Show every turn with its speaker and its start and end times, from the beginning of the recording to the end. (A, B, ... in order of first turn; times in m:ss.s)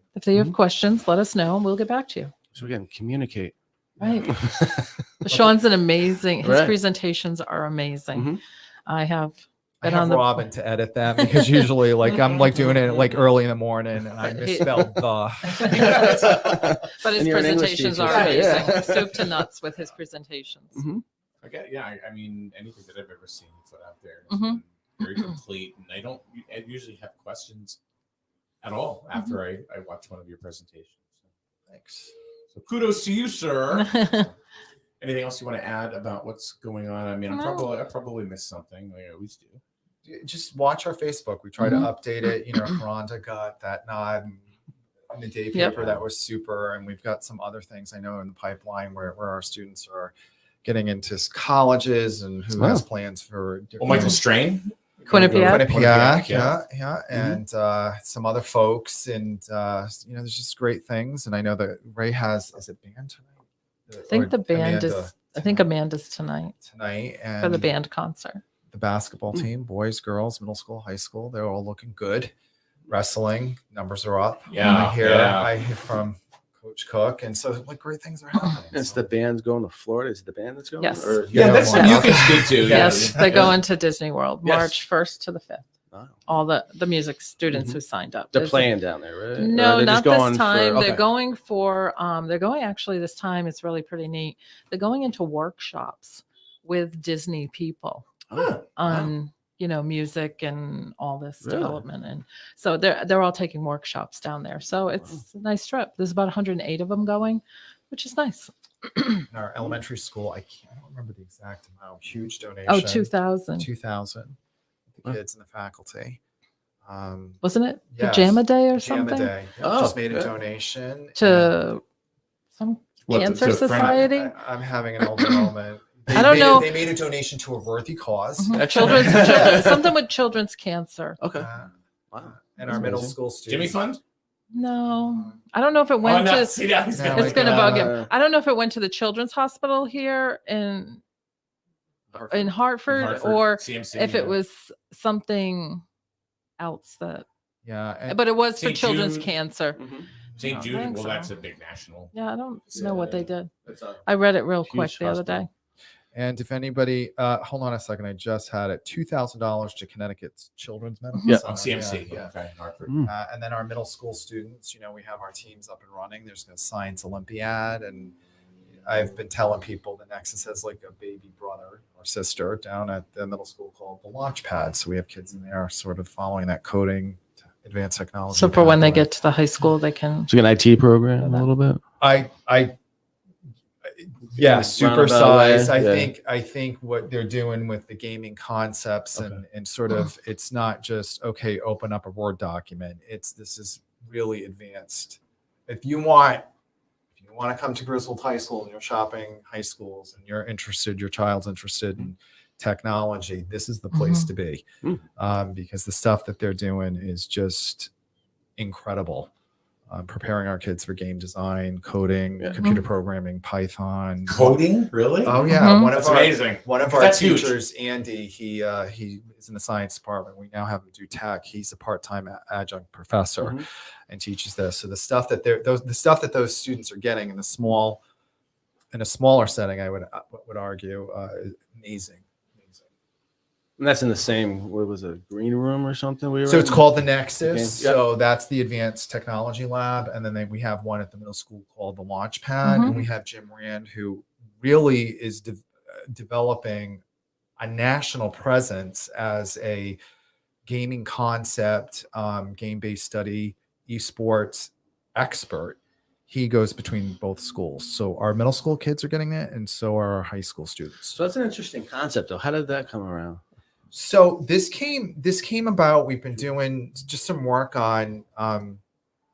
0:00.2-0:02.3 A
0:02.5-0:03.6 B
0:04.0-0:04.3 A
0:04.2-0:05.0 B
0:05.2-0:10.5 A
0:06.4-0:06.7 B
0:08.2-0:08.4 B
0:09.8-0:16.0 C
0:11.2-0:11.7 A
0:12.8-0:13.2 D
0:14.4-0:14.8 A
0:15.5-0:20.8 A
0:15.6-0:16.7 D
0:15.9-0:19.5 B
0:18.0-0:19.3 D
0:20.8-0:21.0 B
0:21.4-0:27.8 D
0:24.3-0:24.6 A
0:28.6-0:31.1 D
0:29.1-0:29.4 A
0:31.7-0:32.1 C
0:32.5-0:34.3 D
0:33.7-0:34.3 A
0:35.0-0:39.6 D
0:37.3-0:37.7 A
0:40.0-0:44.5 C
0:41.6-0:41.9 A
0:45.1-0:54.2 C
0:45.5-0:46.0 A
0:52.6-0:52.8 B
0:53.8-0:56.6 D
0:55.1-0:55.7 A
0:55.4-1:05.7 C
0:57.1-0:57.4 B
1:04.1-1:06.6 A
1:06.6-1:07.7 C
1:07.4-1:08.4 A
1:08.7-1:12.3 C
1:12.9-1:19.1 C
1:14.5-1:15.5 D
1:18.7-1:21.8 B
1:20.8-1:25.7 A
1:21.3-1:23.6 D
1:21.3-1:23.4 C
1:24.4-1:24.7 D
1:25.9-1:26.2 B
1:26.3-1:28.8 A
1:27.5-1:27.8 B
1:28.3-1:30.9 B
1:29.4-1:38.2 A
1:30.8-1:31.0 D
1:38.3-1:39.1 B
1:38.8-1:49.3 A
1:41.4-1:41.8 B
1:49.3-1:54.4 C
1:52.7-1:53.7 A
1:54.9-1:56.2 C
1:56.8-2:01.6 C
1:57.4-1:59.3 A
1:59.6-2:00.3 B
2:01.2-2:01.8 A
2:02.6-2:04.4 A
2:03.1-2:04.1 D
2:04.0-2:09.7 C
2:05.0-2:05.5 A
2:06.1-2:06.9 A
2:08.4-2:11.2 A
2:08.5-2:09.9 B
2:11.2-2:11.5 B
2:11.4-2:11.7 C
2:12.1-2:13.2 B
2:12.3-2:13.8 C
2:13.5-2:14.0 D
2:14.5-2:21.0 A
2:16.0-2:17.9 D
2:16.9-2:17.9 C
2:17.6-2:18.1 B
2:22.1-2:22.5 B
2:22.2-2:25.8 A
2:22.9-2:24.4 D
2:26.6-2:27.2 A
2:27.6-2:28.2 C
2:28.1-2:29.8 A
2:28.6-2:29.3 D
2:29.8-2:30.1 B
2:30.4-2:32.1 D
2:30.4-2:31.3 A
2:32.1-2:33.5 A
2:32.7-2:34.0 B
2:34.0-2:35.5 A
2:34.7-2:35.5 B
2:36.1-2:42.3 C
2:41.4-2:43.0 D
2:43.0-2:48.2 C
2:48.8-2:59.1 C
2:58.3-3:00.3 A
3:00.3-3:01.8 B
3:01.2-3:01.5 A
3:02.0-3:02.8 C
3:04.0-3:16.5 C
3:04.3-3:06.1 B
3:17.2-3:24.6 C
3:23.9-3:24.3 A
3:25.2-3:27.9 C
3:28.6-3:29.3 C
3:29.9-3:34.6 C
3:34.3-3:37.6 D
3:35.2-3:48.0 C
3:35.6-3:35.9 A
3:43.4-3:43.6 B
3:48.9-3:52.8 C
3:53.8-3:56.9 B
3:56.5-4:07.0 C
3:57.4-3:58.0 B
4:02.6-4:02.9 A
4:07.6-4:10.0 C
4:10.7-4:21.2 C
4:21.2-4:23.4 B
4:23.9-4:28.8 C